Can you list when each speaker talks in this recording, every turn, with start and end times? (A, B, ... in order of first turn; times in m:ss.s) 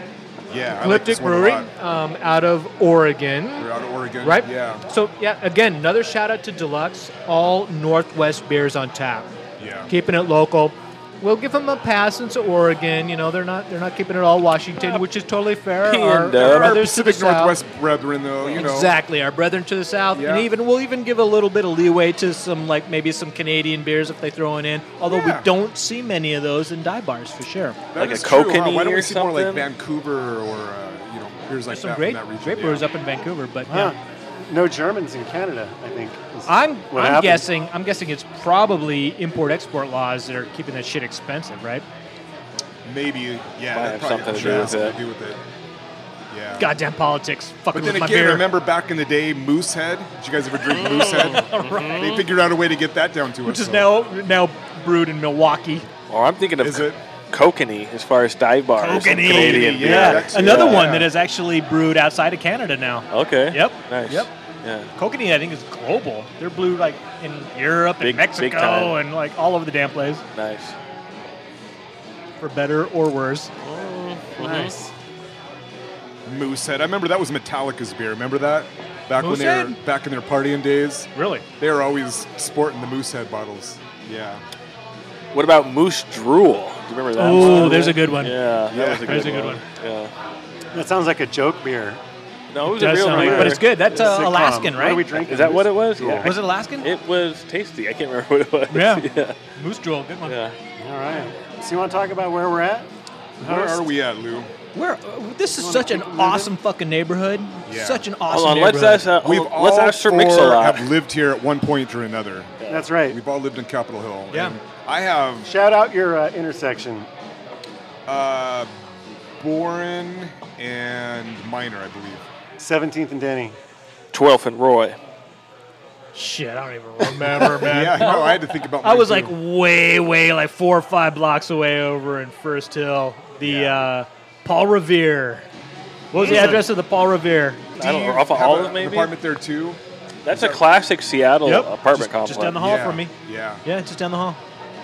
0:00.5-0:01.7 A
0:00.8-0:03.7 B
0:03.6-0:04.8 A
0:04.2-0:09.3 B
0:09.6-0:09.9 A
0:09.9-0:17.6 B
0:15.8-0:16.8 C
0:16.4-0:19.0 A
0:18.4-0:18.7 C
0:18.5-0:27.8 B
0:20.1-0:20.5 A
0:25.0-0:25.5 A
0:27.9-0:32.8 A
0:28.0-0:29.7 C
0:31.7-0:33.9 B
0:33.7-0:37.5 D
0:36.5-0:41.8 B
0:42.8-0:45.4 A
0:43.7-0:45.0 C
0:46.3-0:46.7 A
0:46.6-0:48.5 B
0:47.7-0:53.9 A
0:50.6-0:52.3 C
0:51.0-0:52.1 B
0:53.4-0:55.9 B
0:56.1-1:01.0 C
0:56.6-0:57.0 A
0:58.8-1:04.3 B
0:59.1-1:01.1 A
1:03.1-1:04.9 C
1:05.0-1:10.2 B
1:08.0-1:09.0 C
1:10.3-1:10.7 C
1:12.4-1:13.5 B
1:13.6-1:14.7 C
1:14.4-1:14.9 D
1:16.2-1:24.4 A
1:19.2-1:19.8 B
1:21.1-1:21.4 B
1:25.3-1:30.1 C
1:27.2-1:28.4 B
1:27.2-1:28.0 D
1:28.7-1:29.5 A
1:29.0-1:29.6 B
1:30.7-1:32.0 D
1:32.5-1:33.6 C
1:32.7-1:35.0 B
1:33.0-1:36.3 D
1:35.1-1:39.4 C
1:36.2-1:36.9 B
1:38.7-1:40.4 B
1:40.2-1:40.5 C
1:40.8-1:42.9 D
1:43.4-1:44.5 A
1:43.4-1:43.9 D
1:44.7-1:49.1 B
1:45.6-1:46.5 D
1:47.7-1:48.0 A
1:48.3-1:50.9 C
1:49.2-1:55.5 A
1:52.7-1:53.2 D
1:54.3-1:54.6 B
1:55.4-1:57.1 D
1:58.0-1:58.7 A
1:59.4-2:02.2 A
2:02.6-2:03.6 D
2:04.1-2:05.0 C
2:06.1-2:15.4 B
2:07.6-2:09.4 A
2:13.4-2:13.9 A
2:16.1-2:18.0 B
2:16.2-2:16.6 C
2:17.8-2:19.1 C
2:17.8-2:20.6 A
2:20.2-2:22.6 C
2:21.4-2:23.1 B
2:22.5-2:23.6 A
2:23.6-2:24.4 B